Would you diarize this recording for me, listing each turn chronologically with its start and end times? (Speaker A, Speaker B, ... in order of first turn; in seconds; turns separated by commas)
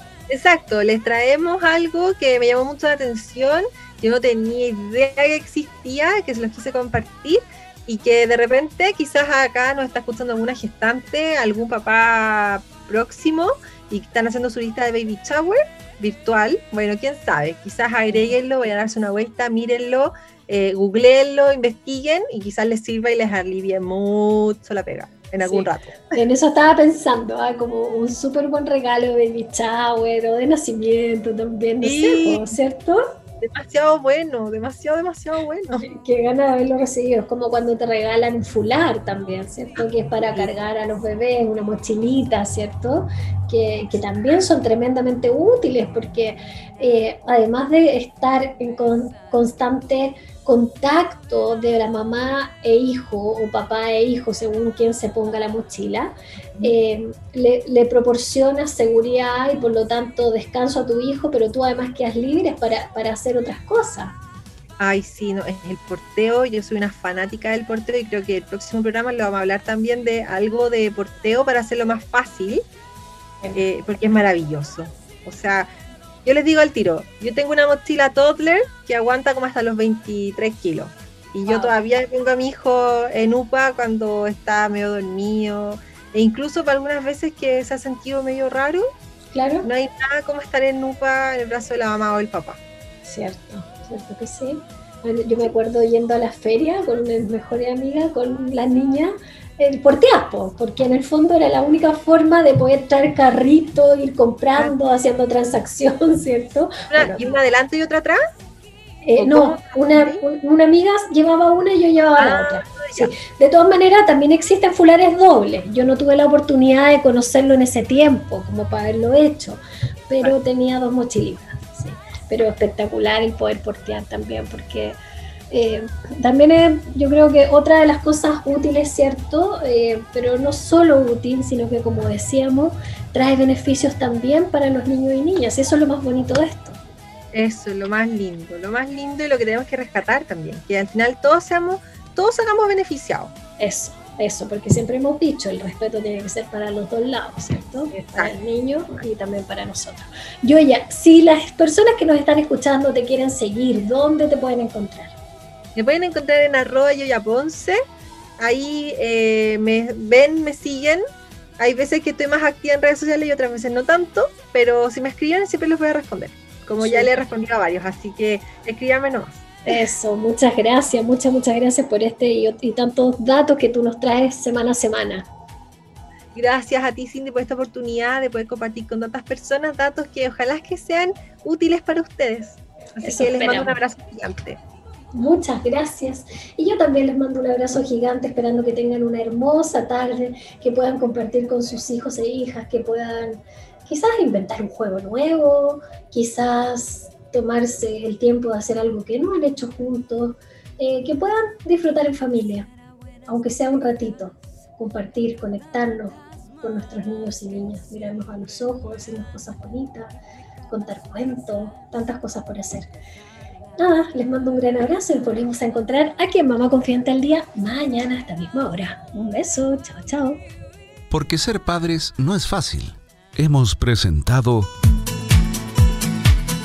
Speaker A: 0.3-26.2, Speaker B: 18.1-18.4, Speaker B: 25.4-33.0, Speaker A: 31.8-32.5, Speaker A: 33.4-35.9, Speaker B: 35.8-64.2, Speaker A: 39.8-40.5, Speaker A: 64.8-72.6, Speaker A: 73.5-75.7, Speaker A: 76.2-88.8, Speaker B: 81.5-81.8, Speaker B: 89.3-89.7, Speaker A: 89.6-92.6, Speaker B: 93.0-107.4, Speaker A: 106.9-108.2, Speaker B: 109.0-125.0, Speaker A: 109.2-110.2, Speaker A: 112.2-113.1, Speaker B: 125.5-136.8, Speaker A: 137.3-143.3, Speaker B: 143.6-155.2, Speaker A: 147.9-148.3, Speaker A: 155.8-157.8, Speaker A: 158.4-161.0, Speaker A: 161.6-169.4, Speaker B: 166.8-167.2, Speaker B: 169.7-175.3, Speaker A: 176.3-184.6, Speaker B: 183.0-183.8, Speaker B: 185.1-202.7, Speaker B: 203.3-210.2, Speaker B: 210.7-212.9, Speaker B: 213.8-220.4, Speaker C: 221.1-224.7